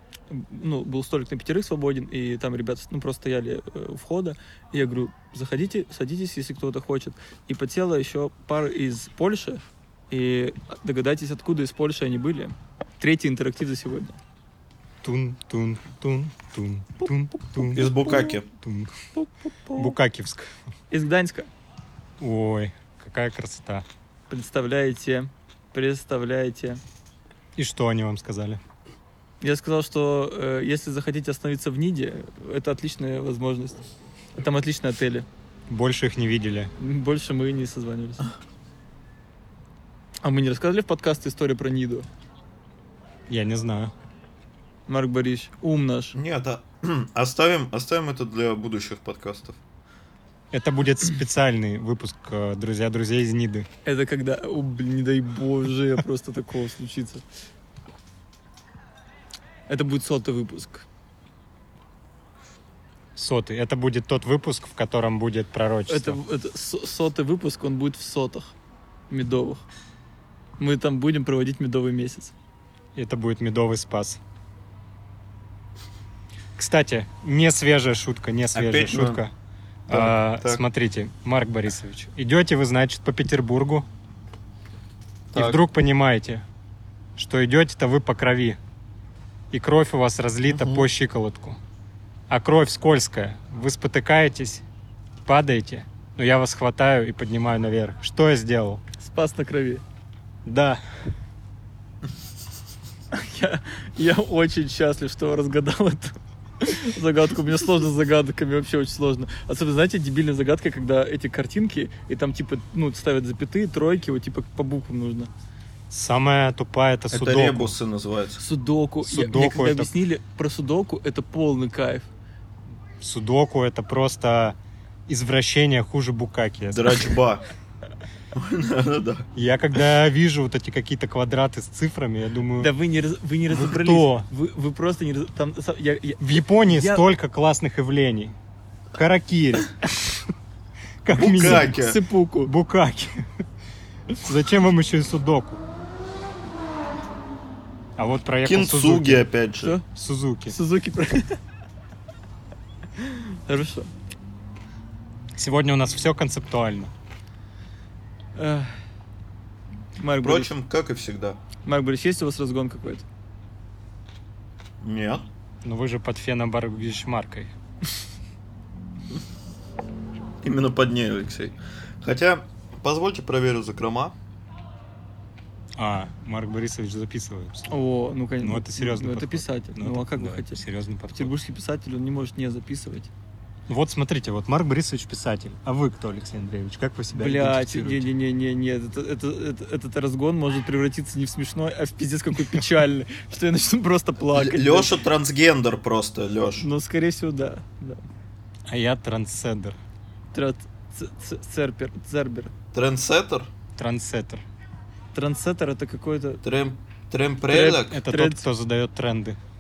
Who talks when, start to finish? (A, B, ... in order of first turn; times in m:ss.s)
0:00.3-0:14.2 A
0:15.0-0:17.9 B
0:17.7-0:18.5 C
0:18.1-0:18.4 A
0:18.6-0:18.9 B
0:19.2-0:19.9 A
0:19.8-0:20.5 B
0:20.9-0:21.5 A
0:22.2-0:23.9 B
0:24.3-0:26.8 A
0:27.6-0:28.6 B
0:29.4-0:33.8 A
0:34.4-0:35.3 A
0:35.7-0:36.7 B
0:36.8-0:38.3 A
0:40.2-0:42.1 A
0:43.3-0:43.9 B
0:44.9-0:46.2 A
0:46.2-0:49.6 C
0:50.5-0:53.7 B
0:53.8-0:57.2 A
0:59.7-1:00.9 A
1:03.2-1:06.2 B
1:05.9-1:08.5 A
1:09.1-1:09.6 A
1:10.6-1:12.3 A
1:13.0-1:14.2 B
1:16.6-1:19.3 B
1:18.6-1:19.2 C
1:19.9-1:23.9 B
1:19.9-1:20.6 C
1:25.3-1:25.6 C
1:25.3-1:26.4 B
1:27.2-1:28.6 B
1:29.5-1:31.6 B
1:30.5-1:30.9 C
1:32.3-1:34.6 B
1:35.2-1:38.8 B
1:39.0-1:39.8 A
1:40.4-1:40.8 B
1:43.1-1:55.3 A
1:55.9-1:57.8 B
1:57.1-1:58.4 C
1:58.4-2:02.1 A
1:59.0-1:59.9 B
2:03.0-2:04.6 B
2:05.1-2:07.2 B
2:06.7-2:07.4 C
2:08.3-2:09.3 C
2:09.4-2:12.7 B
2:12.6-2:17.0 A
2:13.5-2:14.3 B
2:16.2-2:18.4 B
2:18.9-2:19.8 B
2:21.0-2:21.7 B
2:21.2-2:22.0 C
2:21.4-2:22.5 A
2:22.4-2:23.3 B
2:24.2-2:25.6 B
2:28.0-2:29.3 B
2:28.4-2:29.8 C
2:29.9-2:30.6 B
2:30.5-2:31.4 A
2:33.0-2:33.9 A
2:35.4-2:36.9 B
2:38.4-2:38.8 A
2:40.0-2:40.5 A
2:40.2-2:41.4 C
2:41.6-2:43.0 A
2:44.8-2:45.3 C
2:45.6-2:47.5 B
2:50.4-2:54.2 C
2:55.8-2:57.7 B
2:57.7-3:00.6 A
2:58.4-3:01.3 B
3:01.1-3:03.1 A
3:03.7-3:08.1 B
3:07.1-3:15.0 A
3:14.3-3:16.7 C
3:16.6-3:18.0 A
3:18.7-3:19.8 B
3:20.3-3:22.5 A
3:22.7-3:23.5 C
3:23.8-3:24.4 B
3:25.1-3:26.4 A
3:26.4-3:28.0 C
3:27.5-3:29.4 B
3:27.5-3:28.4 A